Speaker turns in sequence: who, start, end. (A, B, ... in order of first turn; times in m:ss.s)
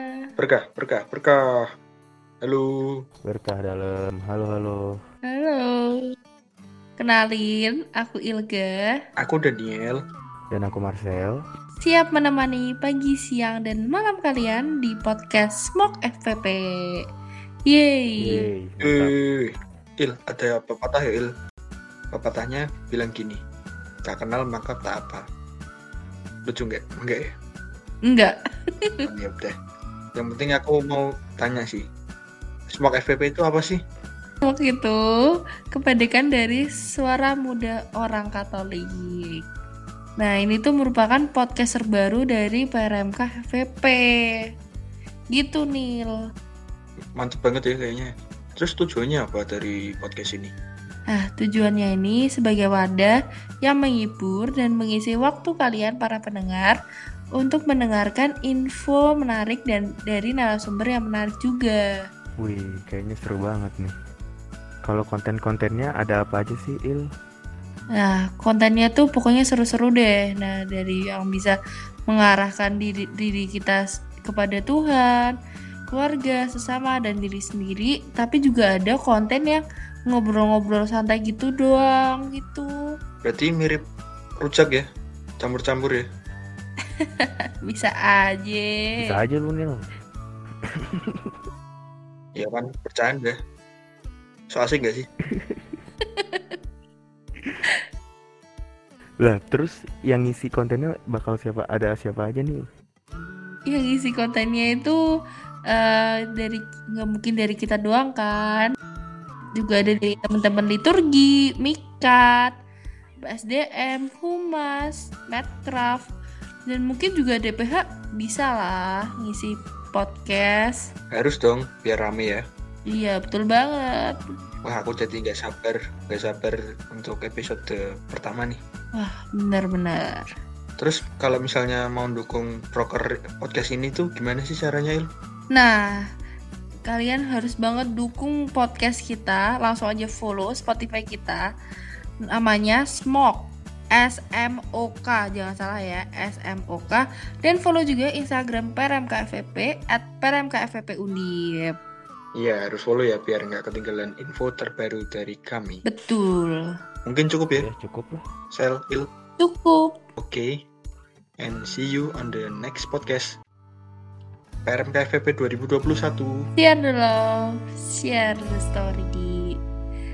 0:00.4-0:01.6 A
0:02.4-0:03.0 A
0:03.2-0:05.0 B
0:05.3-0:06.0 C
0:07.0-0:08.7 C
0:09.2-0:10.0 A
0:10.5-0:11.4 B
0:11.8-0:16.6 C
0:17.7-0:18.4 C
0:18.2-0:19.1 B
0:18.8-0:21.3 A
0:22.1-0:23.4 A
0:24.0-0:25.2 A
0:26.4-0:27.3 A
0:28.0-0:29.0 C
0:29.0-0:29.5 A
0:30.2-0:31.8 A
0:32.7-0:33.8 A
0:34.4-0:35.0 C
0:35.7-0:39.4 C
0:40.2-0:44.0 C
0:45.3-0:46.1 C
0:47.2-0:50.5 A
0:51.1-0:56.8 C
0:57.3-1:01.8 C
1:02.4-1:03.9 B
1:04.8-1:07.1 B
1:07.9-1:11.5 C
1:12.1-1:15.3 C
1:15.9-1:22.7 C
1:23.2-1:23.8 A
1:24.4-1:24.8 A
1:25.4-1:26.1 A
1:27.0-1:29.2 C
1:29.0-1:29.8 B
1:30.8-1:31.4 B
1:32.3-1:33.4 A
1:34.5-1:35.1 A
1:35.4-1:35.8 B
1:36.2-1:36.6 C
1:39.2-1:42.7 B
1:43.7-1:45.0 C
1:45.7-1:48.7 C
1:49.6-1:52.5 C
1:53.2-1:56.1 C
1:56.6-2:00.8 C
2:01.1-2:02.4 A
2:02.9-2:04.2 C
2:04.6-2:08.6 A
2:08.9-2:10.2 C
2:10.8-2:15.1 A
2:15.5-2:16.0 C
2:16.8-2:21.4 C
2:22.2-2:31.7 C
2:32.3-2:35.8 A
2:35.8-2:36.7 C
2:37.0-2:37.7 A
2:37.5-2:38.2 B
2:38.5-2:39.1 A
2:39.4-2:39.9 C
2:40.2-2:40.6 A
2:41.4-2:43.4 A
2:44.6-2:46.5 A
2:46.6-2:49.6 C